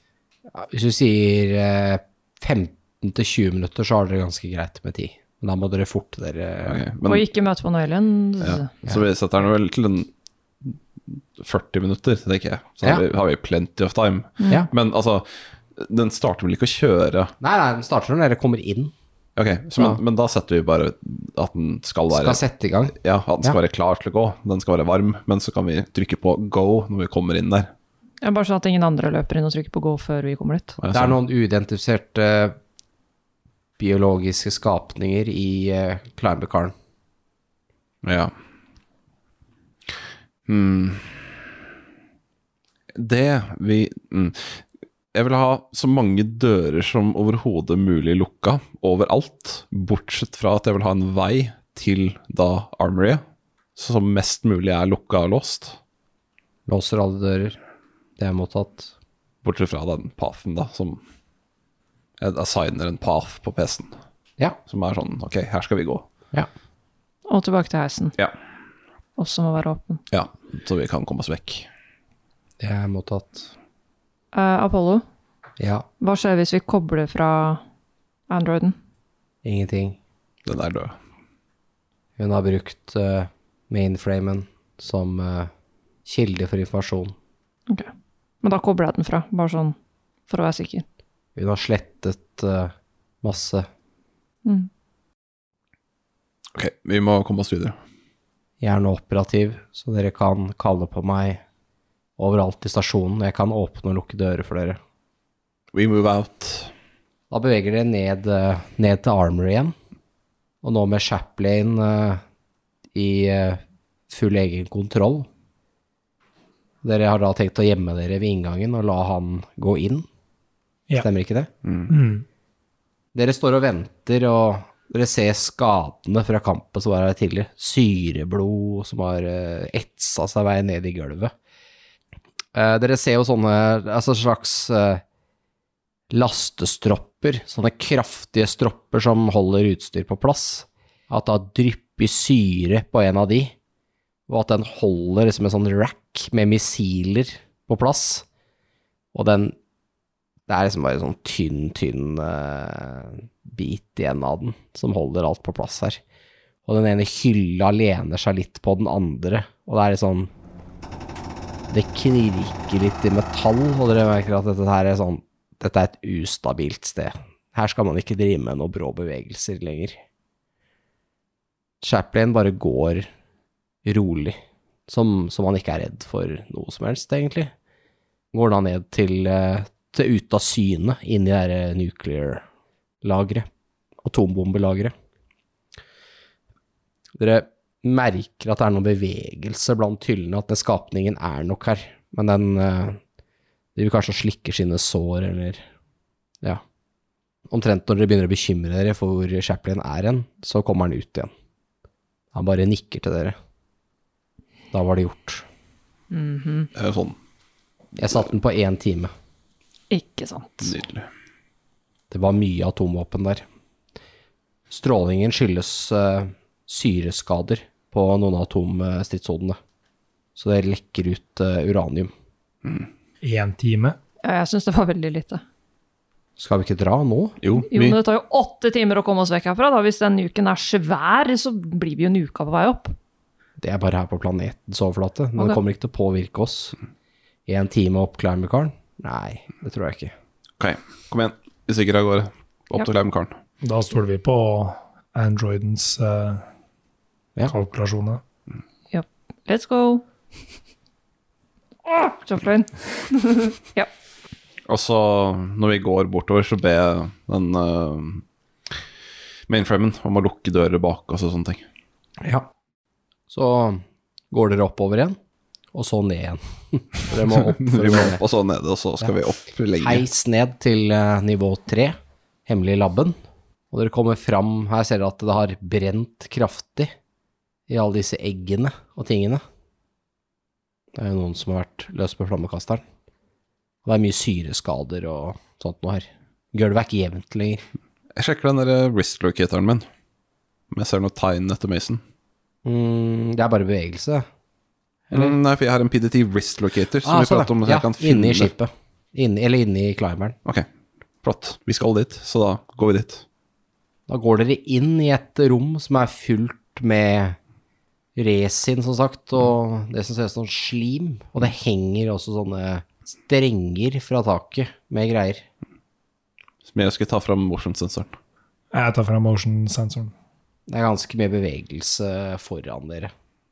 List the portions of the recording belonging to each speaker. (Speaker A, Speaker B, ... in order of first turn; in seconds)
Speaker A: 0.5-6.8, 17.4-18.9, 22.1-23.6, 30.9-32.6, 33.8-36.7, 56.7-57.6, 58.2-58.9, 72.6-73.5, 75.6-75.9, 79.4-80.0, 82.2-85.5, 86.1-87.2, 91.4-93.7, 98.6-101.4, 102.2-104.8, 107.3-109.8, 110.6-112.2, 112.9-115.3, 116.8-120.1, 121.0-121.5, 123.2-131.3, 132.5-135.0, 136.1-143.5, 144.3-148.3, 149.1-149.6, 150.5-156.0, 156.7-160.3, 161.7-170.0, 171.8-173.1, 173.8-177.5, 178.3-182.4, 183.0-183.5, 184.0-184.9, 187.2-193.0, 193.8-195.6, 197.5-201.3, 202.3-203.4, 204.7-205.4, 208.0-209.1, 212.1-213.4, 214.7-219.6, 220.4-222.1, 226.4-227.4, 233.6-236.8, 237.5-240.1, 262.2-262.5, 263.3-265.2, 265.7-268.2, 269.8-272.0, 272.5-273.2, 273.7-276.9, 277.7-279.4, 280.9-282.8, 283.9-287.6, 292.6-294.3, 297.0-300.4, 304.1-307.4, 308.2-315.4, 320.7-323.1
Speaker B: 6.7-7.2, 8.4-10.1, 10.6-17.3, 19.4-22.4, 22.9-27.7, 30.8-31.2, 38.0-38.3, 40.5-41.2, 42.9-44.6, 45.1-53.2, 53.8-55.8, 59.4-61.0, 62.2-64.0, 64.7-66.0, 70.1-71.7, 80.5-81.0, 96.5-97.8, 105.7-106.7, 121.6-121.9, 206.8-207.2, 210.6-211.1, 227.4-228.0, 240.6-243.4, 254.7-258.2, 259.5-261.6, 267.2-270.1, 288.2-289.9, 290.7-292.0, 295.1-298.5, 301.2-303.2, 316.6-318.1
Speaker C: 7.0-8.7, 28.2-30.8, 67.3-68.2, 69.2-70.0, 74.3-75.0, 76.0-77.6, 78.3-78.8, 88.4-89.8, 90.3-90.8, 206.1-206.7, 209.9-210.8, 224.2-225.4, 227.6-232.9, 248.9-250.0, 251.8-253.9
Speaker D: 121.9-122.2, 223.2-224.0, 243.6-246.4, 247.5-248.2, 318.7-320.1